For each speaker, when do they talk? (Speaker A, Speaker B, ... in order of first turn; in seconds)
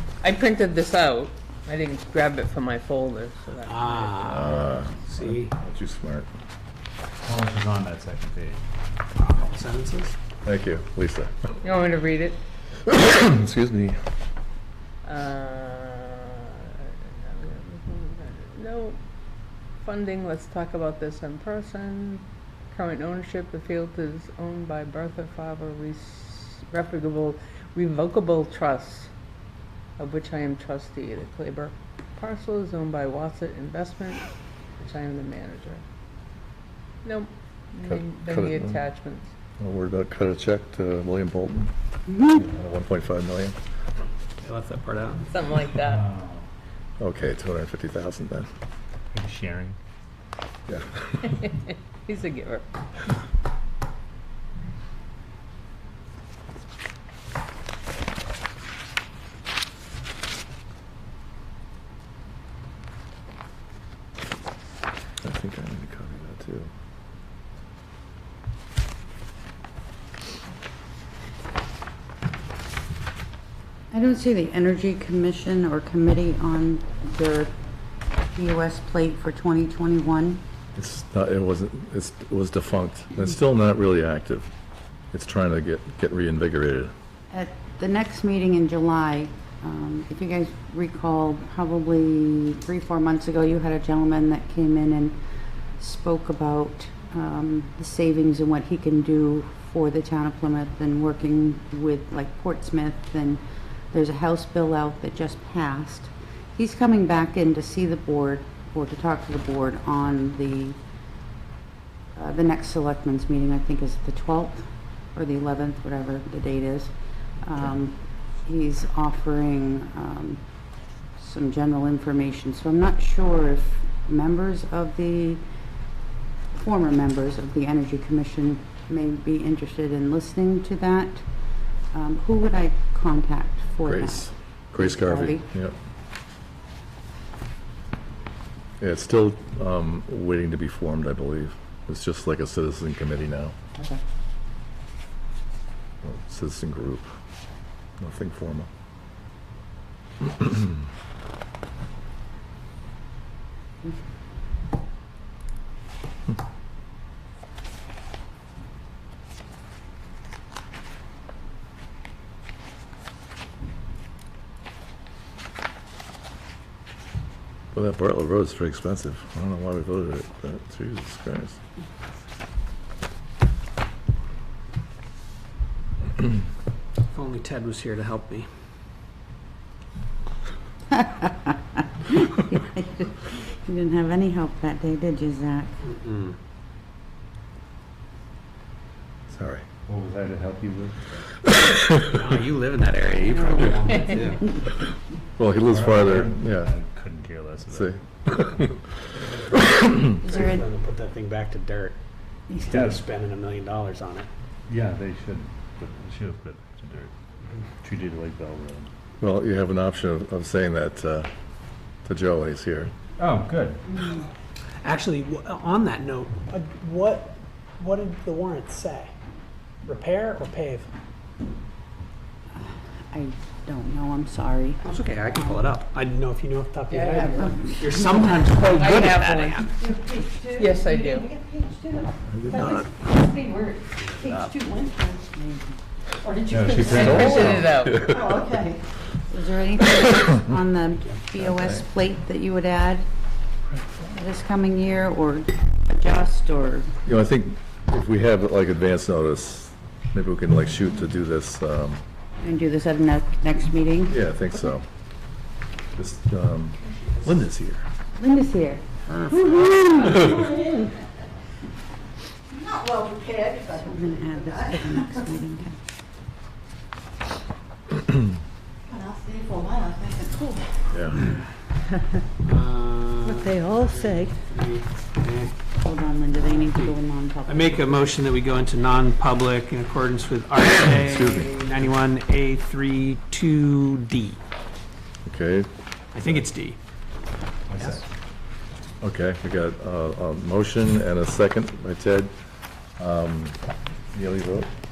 Speaker A: 0.2-4.4, 11.6-12.4, 15.0-19.0, 19.8-29.1, 30.0-34.2, 34.8-35.8, 37.0-39.3, 45.3-46.0, 51.3-52.6, 226.9-227.5, 228.7-229.7, 230.5-231.3, 236.8-238.1
Speaker B: 3.6-5.5, 9.1-10.2, 44.4-45.3, 177.1-178.5, 185.9-186.3, 192.1-194.4, 199.1-202.0, 202.7-204.3, 214.8-219.1, 219.8-220.9, 224.8-229.7, 272.4-275.5, 276.5-276.9, 277.5-284.4, 286.4-286.8
Speaker C: 4.2-6.3, 10.4-11.6, 12.8-14.0, 37.8-38.8, 39.6-41.7, 42.2-43.5, 47.0-48.5, 50.7-51.2, 65.2-66.7, 80.8-84.5, 85.1-86.9, 133.8-135.7, 138.8-143.5, 146.0-147.1, 148.0-148.7, 150.2-150.7, 167.7-171.6, 189.3-189.6, 195.4-196.7, 197.7-198.5, 209.2-211.3, 212.0-212.9, 232.3-232.9, 236.9-238.4, 241.4-241.8, 247.1-252.0, 254.1-254.9, 255.9-257.8, 270.9-271.2, 280.9-281.5, 285.2-285.7, 289.0-292.3, 293.0-293.6, 294.1-294.7
Speaker D: 7.2-8.6, 45.9-46.5, 49.1-49.8, 189.8-191.3, 195.6-198.7, 202.6-203.1, 204.7-207.1, 207.8-208.9, 213.2-214.0, 236.4-237.7, 287.7-288.0
Speaker E: 42.1-42.4, 73.9-77.5, 78.3-80.4, 87.3-95.2, 95.8-110.8, 112.1-120.4, 121.2-125.4, 126.5-131.2, 131.9-135.5, 180.9-185.9, 193.3-194.3, 200.2-200.6, 202.5-202.8, 222.6-225.8, 227.1-228.3, 232.7-235.8, 239.3-243.0, 244.0-246.9, 252.4-254.2, 258.1-260.7, 263.7-265.8, 273.4-274.3, 275.8-278.2
Speaker F: 262.9-263.6, 269.3-269.9, 280.6-281.4